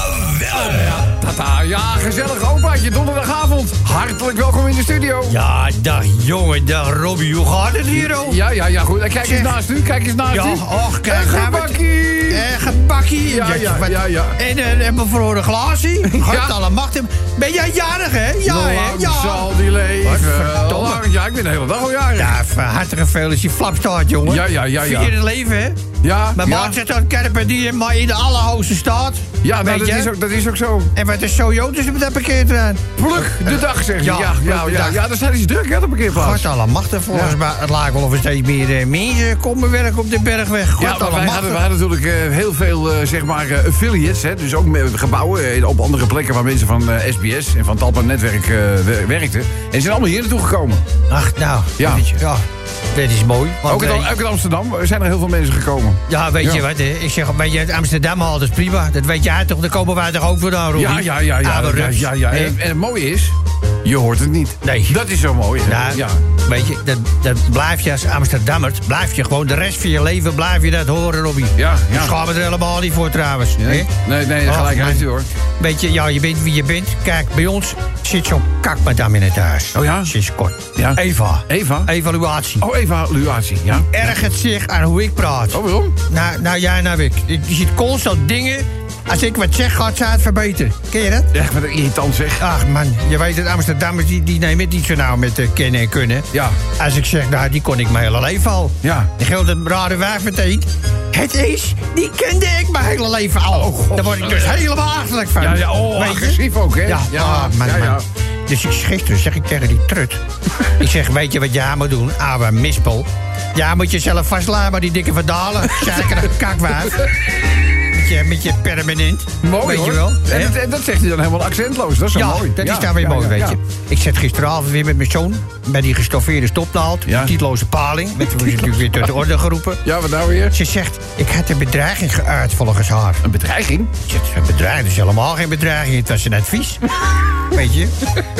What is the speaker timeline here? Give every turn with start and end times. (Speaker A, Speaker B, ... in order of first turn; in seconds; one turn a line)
Speaker A: 0.3-5.4
Speaker B: 5.3-8.4
Speaker A: 7.9-12.5
Speaker B: 9.2-9.5
Speaker B: 10.3-21.0
Speaker A: 13.3-14.4
Speaker A: 16.1-16.6
Speaker A: 18.4-22.4
Speaker B: 22.2-25.8
Speaker A: 24.2-25.1
Speaker A: 26.0-26.8
Speaker B: 26.4-30.1
Speaker A: 29.4-30.9
Speaker B: 30.9-35.0
Speaker A: 33.0-36.5
Speaker B: 36.1-41.6
Speaker A: 37.1-37.4
Speaker A: 40.8-50.8
Speaker B: 51.1-54.1
Speaker A: 51.8-52.2
Speaker A: 53.6-56.6
Speaker B: 56.1-62.5
Speaker A: 60.7-66.2
Speaker B: 64.6-65.0
Speaker B: 65.6-73.9
Speaker A: 71.5-72.2
Speaker A: 73.6-75.3
Speaker B: 74.4-75.0
Speaker B: 75.6-82.6
Speaker A: 79.7-80.1
Speaker A: 80.7-81.9
Speaker A: 82.6-84.0
Speaker B: 83.9-91.3
Speaker A: 85.5-86.0
Speaker A: 91.3-92.5
Speaker B: 92.4-110.2
Speaker A: 96.3-96.6
Speaker A: 98.8-99.1
Speaker A: 103.5-104.7
Speaker A: 105.4-108.0
Speaker B: 110.8-117.1
Speaker B: 117.7-120.5
Speaker A: 119.4-123.6
Speaker B: 122.1-129.8
Speaker A: 127.0-127.4
Speaker A: 128.2-128.9
Speaker A: 129.8-130.6
Speaker B: 130.5-133.2
Speaker A: 133.2-133.9
Speaker B: 134.0-136.8
Speaker B: 137.4-137.9